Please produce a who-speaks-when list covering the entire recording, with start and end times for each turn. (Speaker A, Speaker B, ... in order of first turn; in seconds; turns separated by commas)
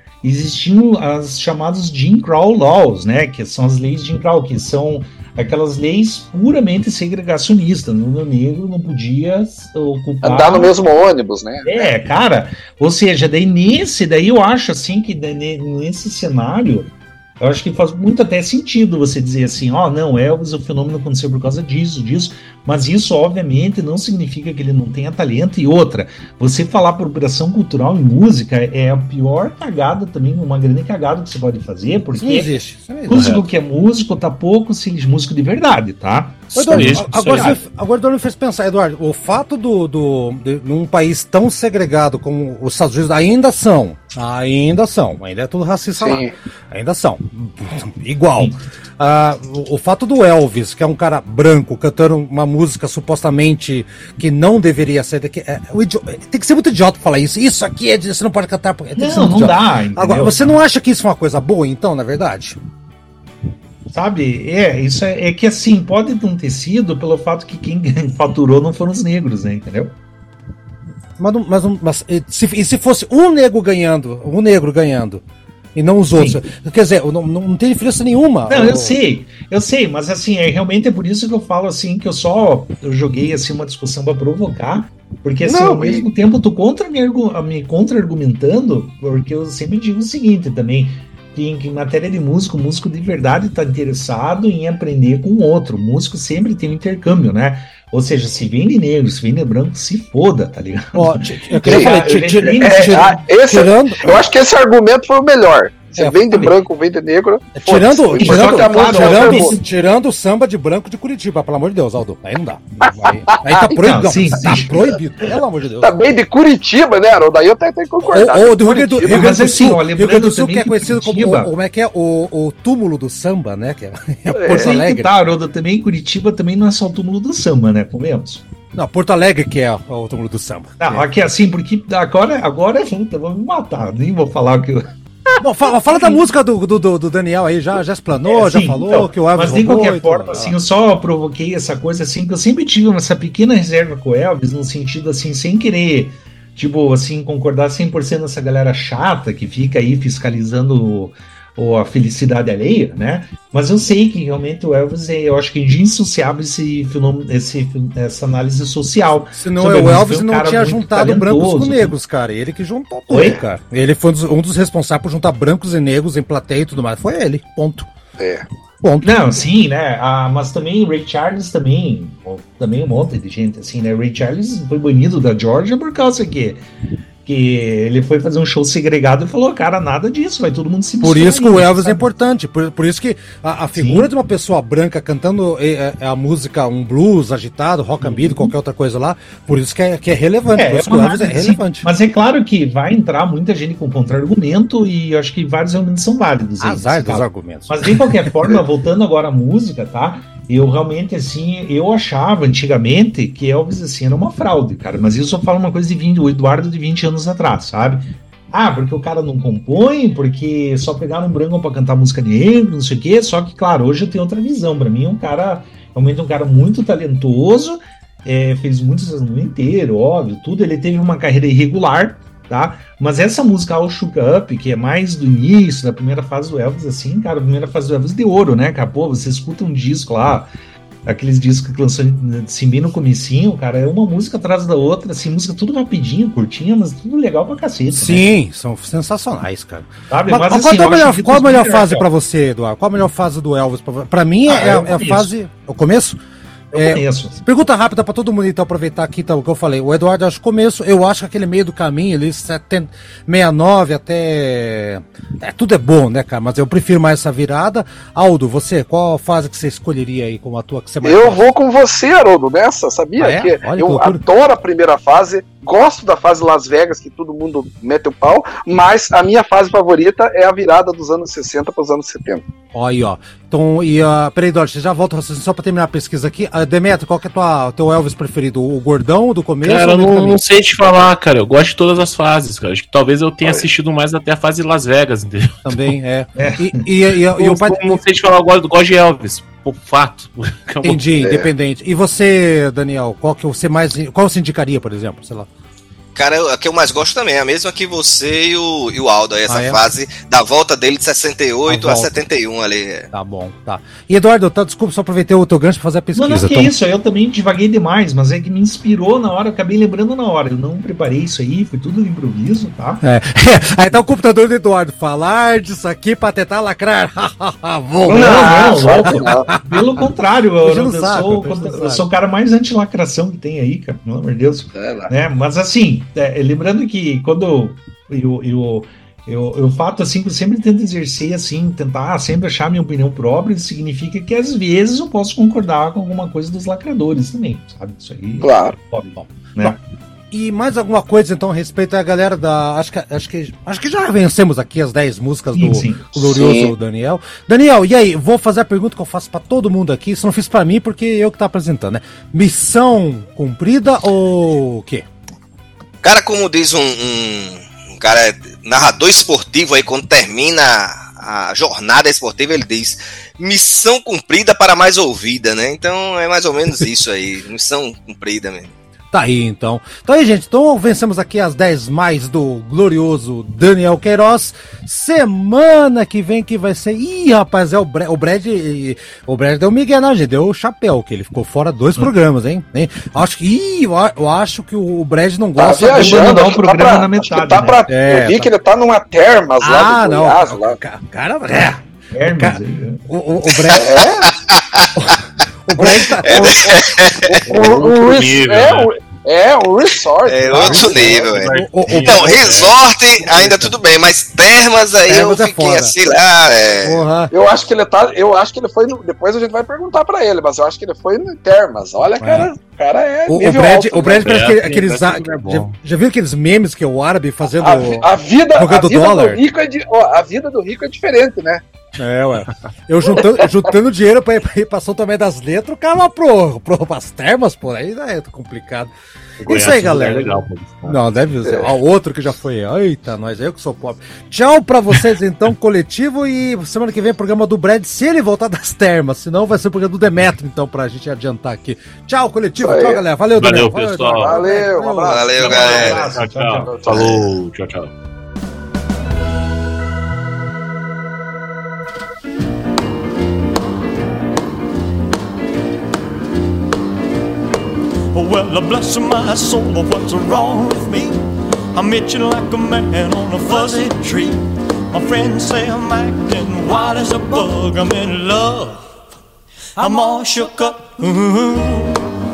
Speaker A: 0.2-10.7, Speaker B: 10.2-11.9, Speaker A: 11.6-32.5, Speaker C: 32.1-33.3, Speaker A: 33.1-37.6, Speaker D: 33.1-33.5, Speaker D: 36.5-37.6, Speaker C: 36.5-62.6, Speaker B: 46.0-46.3, Speaker A: 59.0-60.5, Speaker A: 63.9-70.0, Speaker C: 71.2-75.2, Speaker C: 75.8-79.0, Speaker A: 76.2-76.4, Speaker A: 78.5-103.2, Speaker C: 85.5-86.0, Speaker B: 85.5-86.0, Speaker C: 100.9-104.2, Speaker B: 101.7-109.6, Speaker C: 106.0-106.5, Speaker C: 107.5-115.9, Speaker A: 108.2-109.6, Speaker B: 113.0-113.8, Speaker A: 113.8-114.9, Speaker B: 115.8-118.7, Speaker C: 118.0-125.1, Speaker A: 118.7-121.5, Speaker B: 124.3-124.7, Speaker A: 124.5-128.5, Speaker C: 128.7-131.1, Speaker A: 130.8-134.9, Speaker C: 135.4-140.6, Speaker A: 135.9-136.2, Speaker A: 138.3-161.9, Speaker C: 159.3-167.9, Speaker A: 163.1-163.4, Speaker B: 168.2-168.4, Speaker C: 168.8-169.2, Speaker A: 169.0-176.7, Speaker A: 177.2-182.1, Speaker C: 181.0-191.9, Speaker A: 183.8-184.1, Speaker A: 188.0-188.5, Speaker A: 190.6-230.5, Speaker C: 196.6-198.6, Speaker A: 231.1-238.3, Speaker C: 237.9-246.2, Speaker A: 240.1-242.1, Speaker A: 244.5-245.3, Speaker A: 246.7-247.4, Speaker C: 246.7-261.4, Speaker B: 261.0-272.4, Speaker C: 263.2-264.2, Speaker C: 272.7-280.4, Speaker D: 279.6-285.9, Speaker C: 285.6-288.0, Speaker A: 286.4-286.9, Speaker D: 287.4-291.2, Speaker C: 290.8-295.5, Speaker B: 291.2-291.5, Speaker E: 296.1-303.1, Speaker C: 299.5-299.8, Speaker C: 301.7-302.2, Speaker C: 303.1-306.8, Speaker A: 306.1-313.0, Speaker C: 313.0-320.0, Speaker A: 318.1-339.8, Speaker B: 318.1-319.5, Speaker C: 320.6-322.1, Speaker B: 324.7-325.1, Speaker B: 338.4-338.8, Speaker C: 339.2-339.8, Speaker C: 340.3-355.1, Speaker A: 345.6-346.1, Speaker B: 346.2-346.7, Speaker E: 356.0-368.7, Speaker C: 369.1-386.4, Speaker B: 385.6-390.8, Speaker A: 385.8-387.8, Speaker C: 387.9-388.5, Speaker C: 389.6-394.0, Speaker A: 392.1-393.0, Speaker B: 393.7-394.3, Speaker E: 394.3-394.9, Speaker C: 395.7-396.7, Speaker E: 396.2-397.3, Speaker B: 397.2-400.7, Speaker D: 397.5-398.9, Speaker E: 400.3-407.1, Speaker C: 400.5-402.6, Speaker D: 400.6-403.7, Speaker C: 403.3-403.6, Speaker C: 405.1-405.9, Speaker C: 406.8-407.3, Speaker B: 407.3-414.3, Speaker C: 412.2-412.5, Speaker C: 413.3-419.4, Speaker D: 414.2-415.7, Speaker B: 417.6-421.6, Speaker C: 422.0-428.9, Speaker D: 429.4-431.0, Speaker C: 429.4-430.4, Speaker C: 430.9-445.6, Speaker B: 431.4-431.7, Speaker B: 442.6-443.0, Speaker D: 443.4-444.4, Speaker B: 444.1-445.9, Speaker E: 445.1-446.1, Speaker A: 445.4-447.1, Speaker D: 446.0-447.9, Speaker B: 446.7-447.0, Speaker F: 458.1-469.0, Speaker F: 469.8-471.9